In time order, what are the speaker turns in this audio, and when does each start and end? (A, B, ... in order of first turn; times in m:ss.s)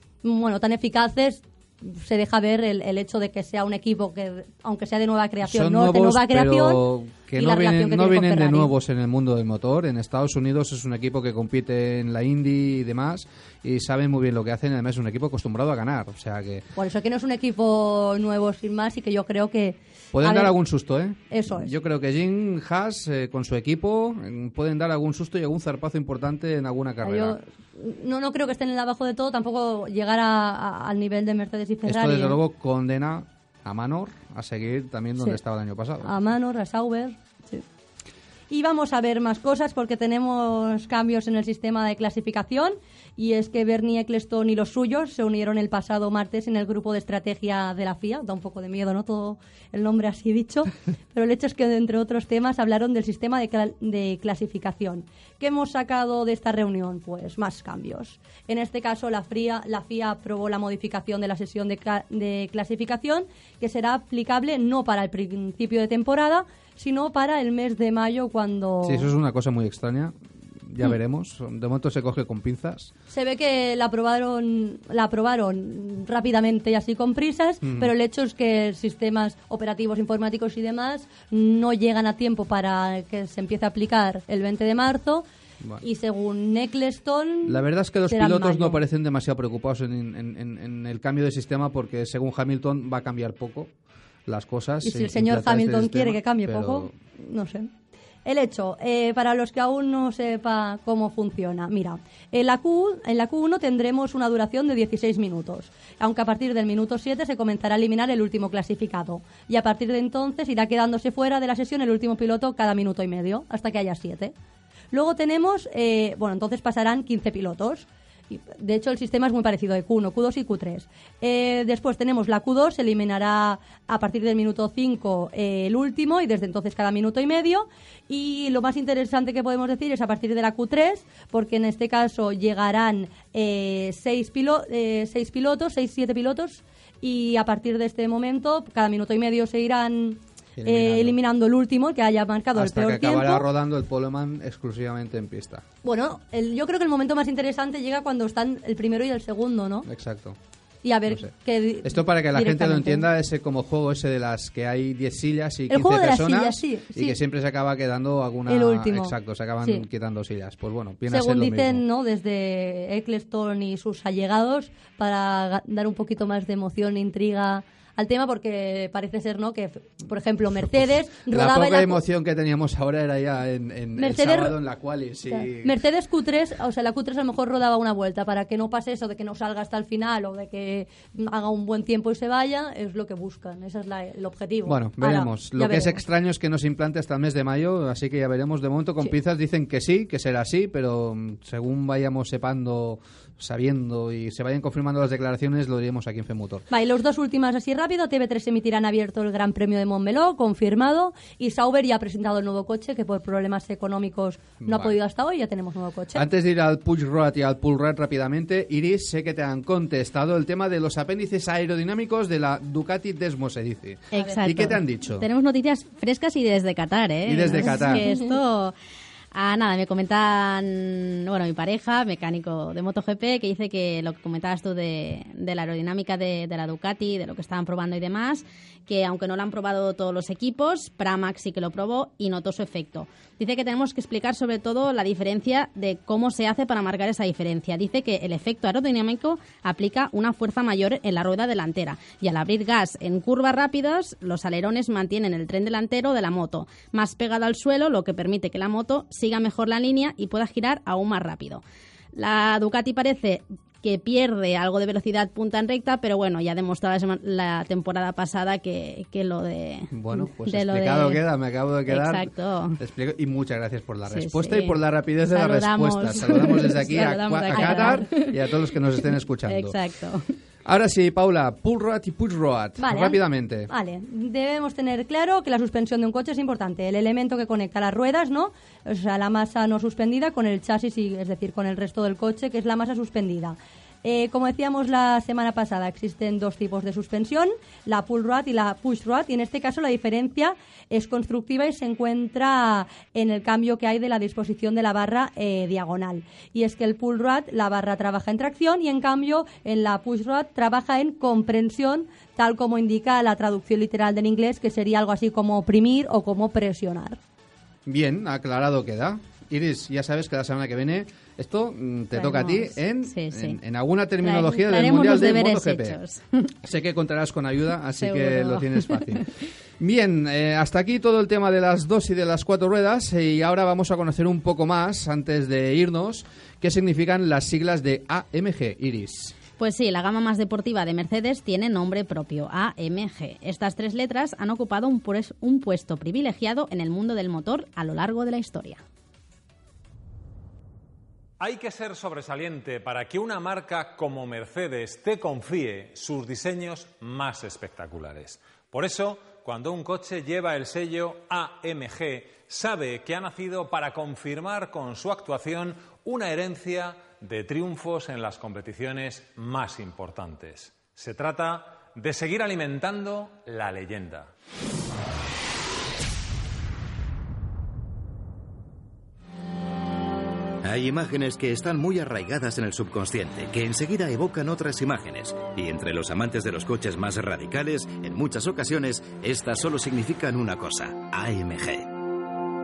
0:00.2-0:06.8 A
0:05.4-0:16.7 B
0:07.4-0:08.7 A
0:16.8-0:20.5 A
0:20.1-0:27.4 B
0:21.3-0:21.7 A
0:27.0-0:32.4 A
0:31.9-0:36.1 B
0:36.0-0:37.6 A
0:38.5-1:09.1 A
1:08.8-1:12.9 B
1:13.1-1:25.2 A
1:17.6-1:17.9 B
1:25.8-1:28.8 A
1:27.4-1:33.7 B
1:34.3-1:36.9 B
1:34.8-1:37.7 A
1:38.2-1:54.3 A
1:54.9-2:23.4 A
2:20.6-2:21.2 B
2:22.6-2:25.6 B
2:25.8-2:29.9 A
2:29.8-2:30.4 B
2:30.8-2:33.1 A
2:31.1-2:31.3 B
2:31.8-2:41.8 B
2:35.7-2:37.2 A
2:38.5-2:39.8 A
2:41.1-2:52.0 A
2:50.7-2:55.8 B
2:54.0-2:54.6 A
2:55.3-3:06.0 A
3:04.6-3:16.7 B
3:16.7-3:26.2 A
3:24.6-3:25.0 B
3:26.2-3:35.3 B
3:34.1-3:38.8 C
3:37.3-3:38.1 B
3:39.3-4:11.6 C
4:12.1-4:21.2 C
4:19.9-4:29.8 B
4:21.9-4:22.8 C
4:24.1-4:28.5 C
4:27.5-4:28.0 A
4:29.4-4:30.3 C
4:30.6-4:33.7 B
4:32.8-5:07.2 A
5:07.9-5:16.0 B
5:12.1-5:13.6 C
5:14.2-5:16.5 C
5:14.8-5:15.0 A
5:16.6-5:29.4 B
5:18.0-5:19.2 C
5:29.6-5:38.8 C
5:41.4-6:04.3 D
6:10.6-6:21.9 E